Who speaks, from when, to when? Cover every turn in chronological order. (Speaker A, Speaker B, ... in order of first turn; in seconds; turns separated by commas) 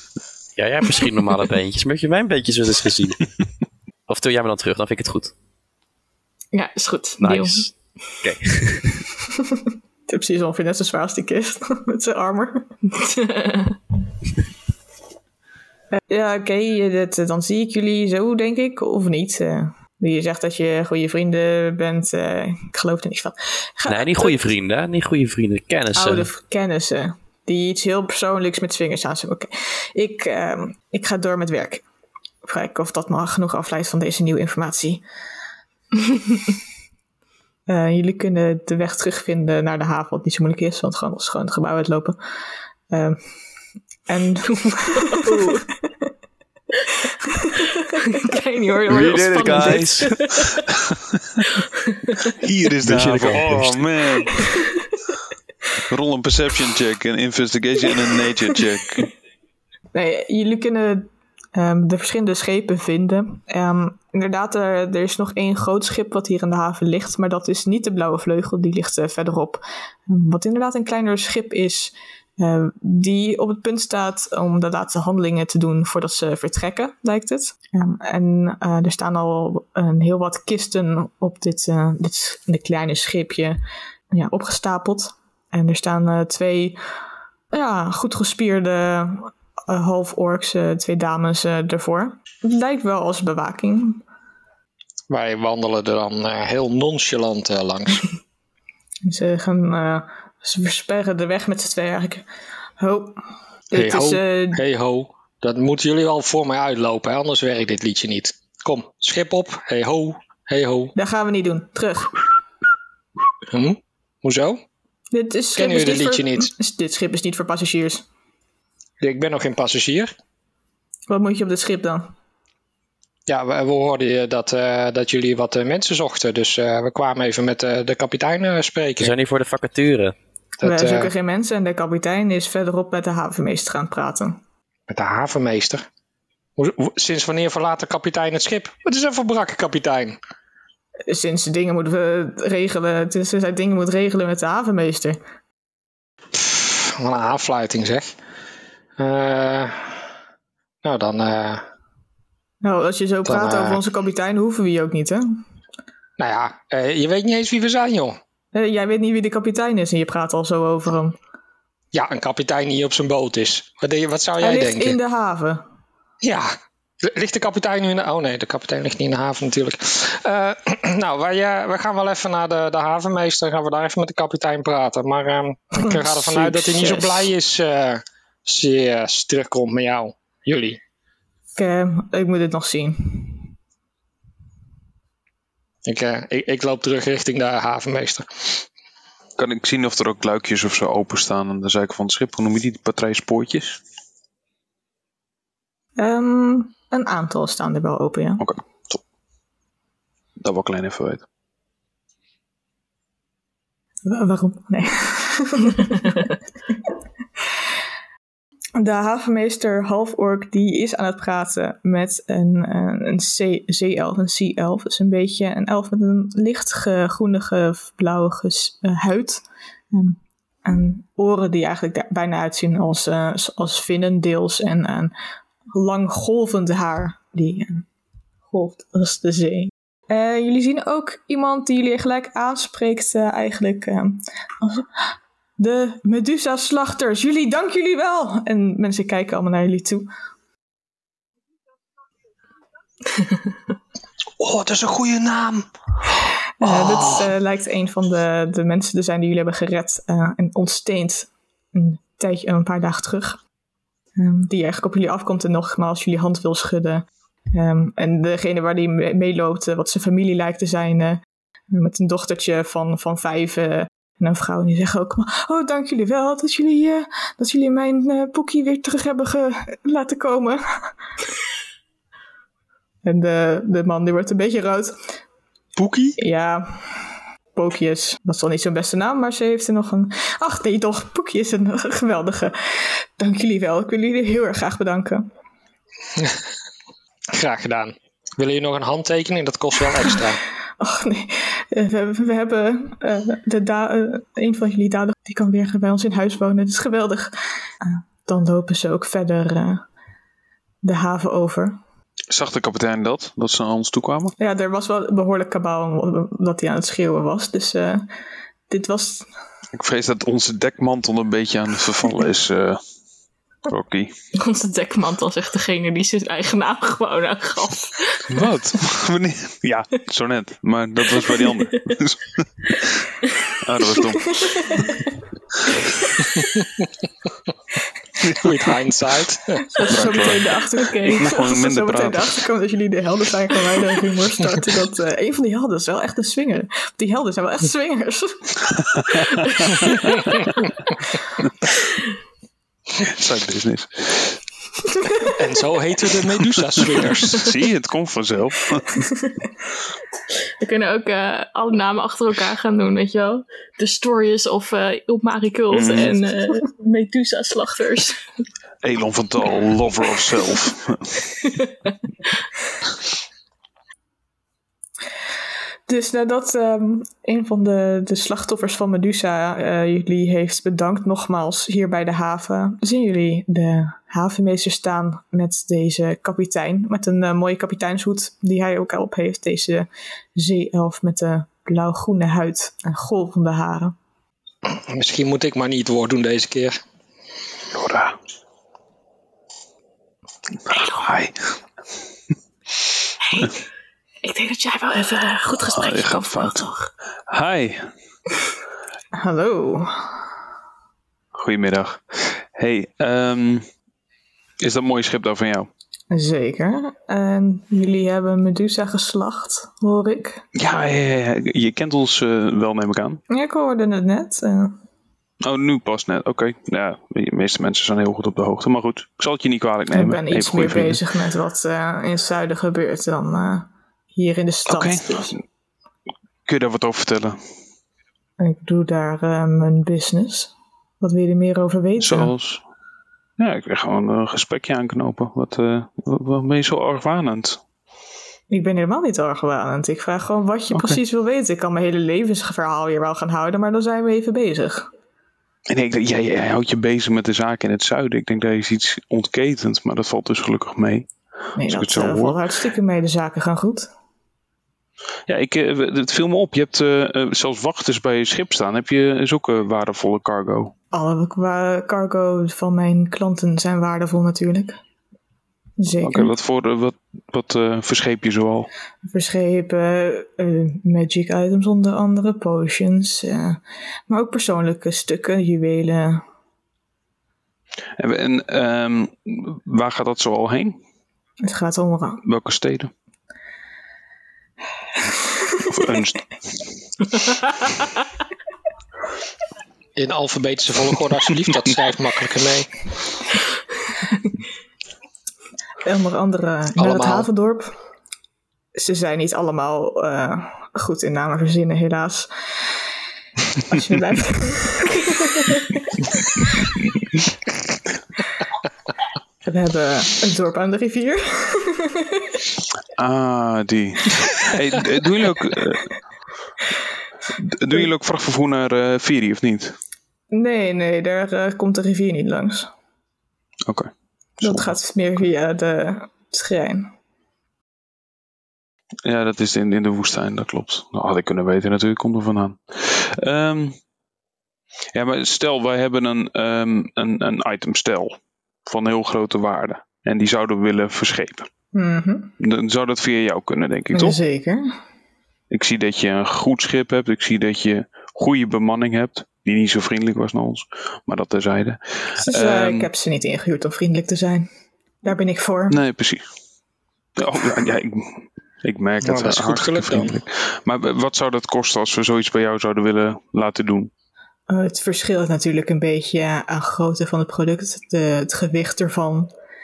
Speaker A: 0.6-3.3, Speaker A: 4.1-5.3, Speaker B: 6.5-7.7, Speaker A: 7.2-9.1, Speaker C: 10.1-12.7, Speaker B: 12.9-13.8, Speaker C: 16.1-24.5, Speaker A: 23.9-26.3, Speaker C: 25.9-31.8, Speaker C: 32.4-35.0, Speaker C: 37.7-42.2, Speaker C: 42.9-43.2, Speaker C: 44.1-45.6, Speaker B: 45.1-45.6, Speaker C: 47.3-47.7, Speaker B: 48.0-50.7, Speaker A: 48.9-50.2, Speaker D: 49.0-50.0, Speaker B: 51.5-52.4, Speaker D: 52.4-54.4, Speaker A: 52.8-53.8, Speaker D: 55.9-59.1, Speaker C: 59.9-83.6, Speaker C: 84.1-86.8, Speaker C: 87.5-94.0, Speaker E: 95.1-98.1, Speaker C: 99.0-102.2, Speaker C: 102.8-104.6, Speaker E: 103.7-110.9, Speaker C: 110.9-112.2, Speaker E: 113.5-114.6, Speaker C: 115.1-118.0, Speaker E: 115.5-116.5, Speaker E: 119.0-120.1, Speaker C: 121.1-122.1, Speaker E: 123.3-129.1, Speaker A: 129.0-130.1, Speaker C: 130.6-134.4, Speaker E: 130.6-131.1, Speaker E: 134.9-135.9, Speaker E: 136.6-140.2, Speaker C: 141.1-145.2, Speaker E: 146.3-148.1, Speaker E: 149.0-150.0, Speaker E: 150.8-151.6, Speaker C: 152.6-155.4, Speaker E: 153.3-153.8, Speaker E: 156.2-158.2, Speaker C: 158.5-161.2, Speaker E: 161.9-165.0, Speaker C: 164.4-165.6, Speaker E: 166.2-180.8, Speaker C: 175.8-177.3, Speaker C: 181.6-183.5, Speaker E: 185.8-188.6, Speaker D: 189.4-193.8, Speaker C: 196.0-198.4, Speaker D: 198.4-199.0, Speaker D: 200.4-201.2, Speaker C: 204.1-206.1, Speaker C: 208.8-225.1, Speaker C: 225.7-227.8, Speaker C: 228.5-235.1, Speaker C: 235.6-240.1, Speaker E: 244.4-247.3, Speaker C: 246.6-253.4, Speaker C: 254.2-270.9, Speaker C: 273.0-274.9, Speaker D: 275.8-276.1, Speaker C: 276.2-277.0, Speaker C: 277.5-285.3, Speaker E: 287.3-290.4, Speaker C: 290.8-299.8, Speaker C: 300.8-301.8, Speaker D: 302.3-304.3, Speaker C: 304.4-308.1, Speaker C: 308.7-309.3, Speaker D: 309.7-312.8, Speaker D: 313.7-314.1, Speaker B: 314.3-318.2, Speaker D: 318.3-324.8, Speaker B: 321.4-321.9, Speaker C: 324.4-324.8, Speaker D: 328.2-328.6, Speaker E: 328.3-329.7, Speaker C: 329.7-338.5, Speaker B: 329.8-331.3, Speaker D: 329.9-330.4, Speaker D: 331.2-332.4, Speaker D: 338.9-339.9, Speaker B: 341.9-342.1, Speaker D: 343.0-344.4, Speaker E: 345.4-347.5, Speaker D: 346.1-349.1, Speaker B: 350.3-358.2, Speaker D: 355.7-356.2, Speaker D: 358.8-361.2, Speaker B: 361.4-362.3, Speaker C: 365.9-383.9, Speaker E: 384.7-386.8, Speaker D: 387.7-388.2, Speaker B: 390.7-391.2, Speaker D: 390.7-391.4, Speaker B: 393.2-393.6, Speaker B: 394.2-396.9, Speaker D: 395.6-396.6, Speaker D: 397.3-397.9, Speaker C: 399.1-400.1, Speaker D: 401.3-403.6, Speaker D: 404.6-405.7, Speaker C: 406.1-410.4, Speaker D: 410.5-413.2, Speaker C: 413.3-414.8, Speaker D: 415.4-421.0, Speaker C: 419.9-425.4, Speaker D: 424.7-425.3, Speaker D: 426.4-427.4, Speaker C: 428.4-432.3, Speaker D: 432.0-432.6, Speaker D: 433.4-437.6, Speaker C: 438.5-444.9, Speaker D: 440.7-441.0, Speaker D: 445.7-451.1, Speaker C: 451.6-453.9, Speaker D: 451.6-452.4, Speaker D: 455.3-460.7, Speaker C: 460.9-464.8, Speaker C: 465.8-466.3, Speaker D: 466.0-468.7, Speaker C: 469.0-476.2, Speaker D: 478.0-480.8, Speaker C: 481.4-482.2, Speaker D: 482.2-482.9, Speaker D: 485.6-486.3, Speaker E: 489.9-492.7, Speaker C: 495.8-497.7, Speaker E: 496.8-497.3, Speaker C: 498.7-502.7, Speaker C: 503.7-505.9, Speaker C: 509.4-512.3, Speaker D: 512.9-515.9, Speaker D: 517.4-519.8, Speaker C: 520.3-522.7, Speaker D: 523.6-524.7, Speaker C: 524.4-526.9, Speaker D: 529.0-533.8, Speaker D: 534.9-541.5, Speaker C: 541.7-542.3, Speaker D: 542.4-544.2, Speaker C: 543.9-544.7, Speaker D: 545.5-552.9, Speaker C: 552.2-554.5, Speaker C: 555.0-555.8, Speaker D: 555.7-556.2, Speaker D: 557.2-563.9, Speaker E: 559.0-560.2, Speaker C: 564.5-569.3